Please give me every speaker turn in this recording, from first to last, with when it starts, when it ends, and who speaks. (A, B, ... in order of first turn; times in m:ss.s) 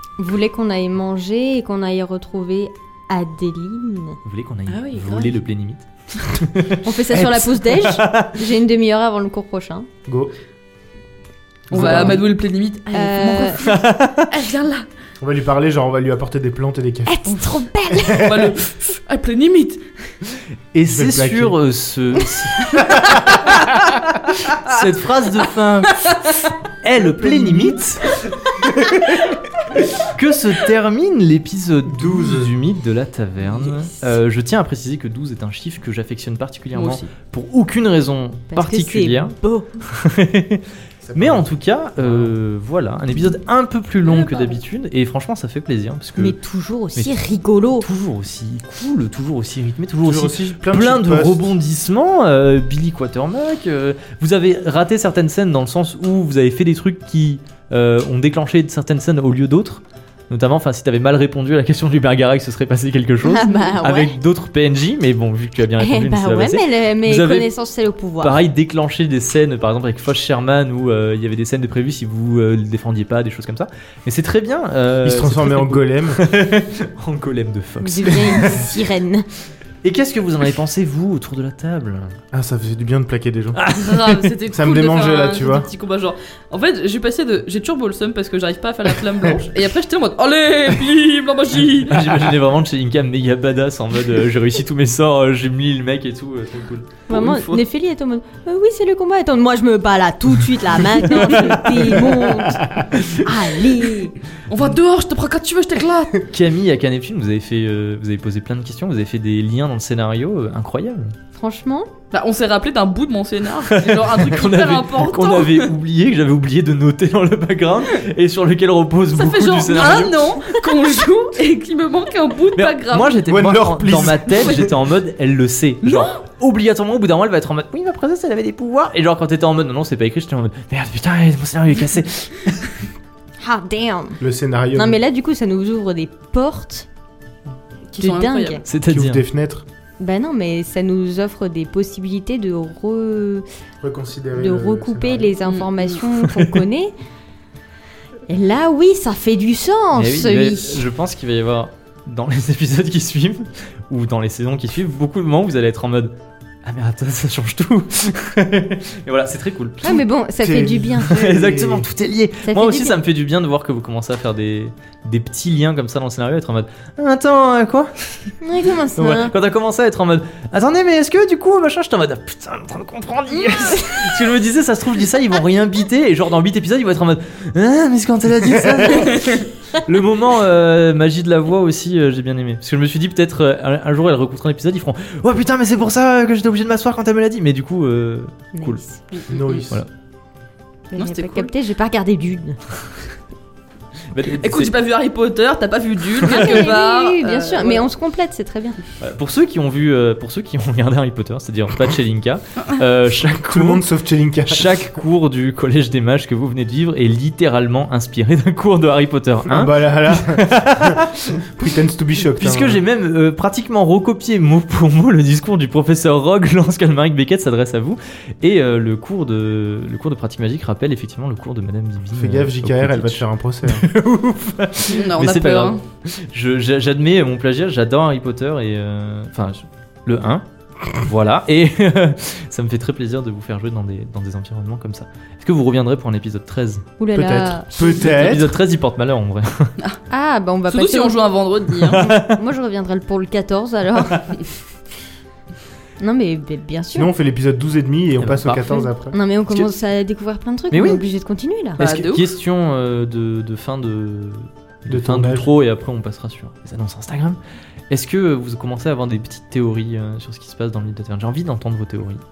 0:00.2-0:04.2 A
0:04.2-0:08.3 B
0:04.7-0:05.3 C
0:06.8-0:09.9 A
0:10.0-0:10.3 D
0:11.7-0:12.2 D
0:11.7-0:12.2 B
0:11.7-0:14.9 C
0:12.9-0:13.6 A
0:13.6-0:14.3 B
0:15.2-0:17.4 D
0:17.0-0:18.4 A
0:18.0-0:18.5 D
0:18.1-0:19.9 C
0:20.7-0:26.3 B
0:20.8-0:21.6 D
0:22.8-0:23.4 C
0:26.8-0:29.3 B
0:26.9-0:27.9 D
0:28.4-0:28.9 D
0:30.0-0:40.6 B
0:31.9-0:32.5 D
0:33.6-0:33.9 A
0:36.7-0:37.1 C
0:38.5-0:39.7 A
0:41.0-0:42.3 D
0:41.1-0:46.3 B
0:44.0-0:44.6 C
0:46.2-0:47.9 A
0:47.8-1:07.5 B
0:50.0-0:51.5 D
1:03.2-1:04.1 A
1:05.8-1:08.4 A
1:08.2-1:18.7 B
1:15.0-1:16.2 D
1:17.8-1:19.3 A
1:19.8-1:22.2 B
1:22.3-1:23.6 D
1:23.6-1:24.3 B
1:23.8-1:32.3 C
1:24.5-1:25.7 D
1:31.8-1:37.0 B
1:37.1-1:44.1 A
1:37.1-1:37.6 C
1:41.2-1:41.9 B
1:42.6-1:42.9 D
1:44.5-1:46.2 C
1:46.2-1:51.1 B
1:51.3-1:51.9 A
1:52.1-1:55.7 C
1:53.7-2:00.9 B
1:59.1-2:03.2 C
2:02.5-2:12.7 B
2:03.2-2:04.7 D
2:04.4-2:04.7 C
2:05.8-2:06.2 C
2:13.4-2:14.2 A
2:14.2-2:15.0 D
2:14.7-2:16.9 A
2:17.9-2:18.6 A
2:18.0-2:18.6 C
2:18.6-2:19.2 B
2:18.9-2:19.6 D
2:20.0-2:23.4 A
2:23.8-2:25.3 D
2:24.4-2:26.9 A
2:25.4-2:26.0 C
2:26.2-2:26.6 B
2:28.3-2:30.8 A
2:30.0-2:36.1 B
2:36.6-2:40.0 B
2:39.8-2:41.1 A
2:40.4-2:41.9 D
2:41.0-2:48.4 B
2:42.4-2:43.0 A
2:48.4-2:49.3 A
2:49.0-3:08.8 B
3:08.5-3:09.0 A
3:09.1-3:09.6 C
3:09.3-3:09.8 D
3:10.9-3:12.6 A
3:11.0-3:11.5 C
3:14.1-3:14.7 B
3:14.3-3:17.8 C
3:16.2-3:16.7 B
3:16.2-3:18.8 A
3:19.0-3:23.8 B
3:23.5-3:24.7 D
3:24.4-3:31.4 B
3:29.5-3:32.8 D
3:32.4-3:56.8 B
3:42.2-3:43.9 D
3:44.9-3:45.8 C
3:57.0-3:58.0 A
3:57.1-3:58.6 D
3:57.8-3:59.7 B
4:00.1-4:04.4 A
4:00.7-4:02.1 C
4:01.9-4:02.4 B
4:06.0-4:07.1 A
4:07.0-4:09.2 D
4:08.2-4:08.8 B
4:09.1-4:11.8 A
4:10.7-4:11.0 B
4:11.8-4:17.4 B
4:11.8-4:12.3 C
4:14.9-4:15.5 D
4:17.9-4:22.2 B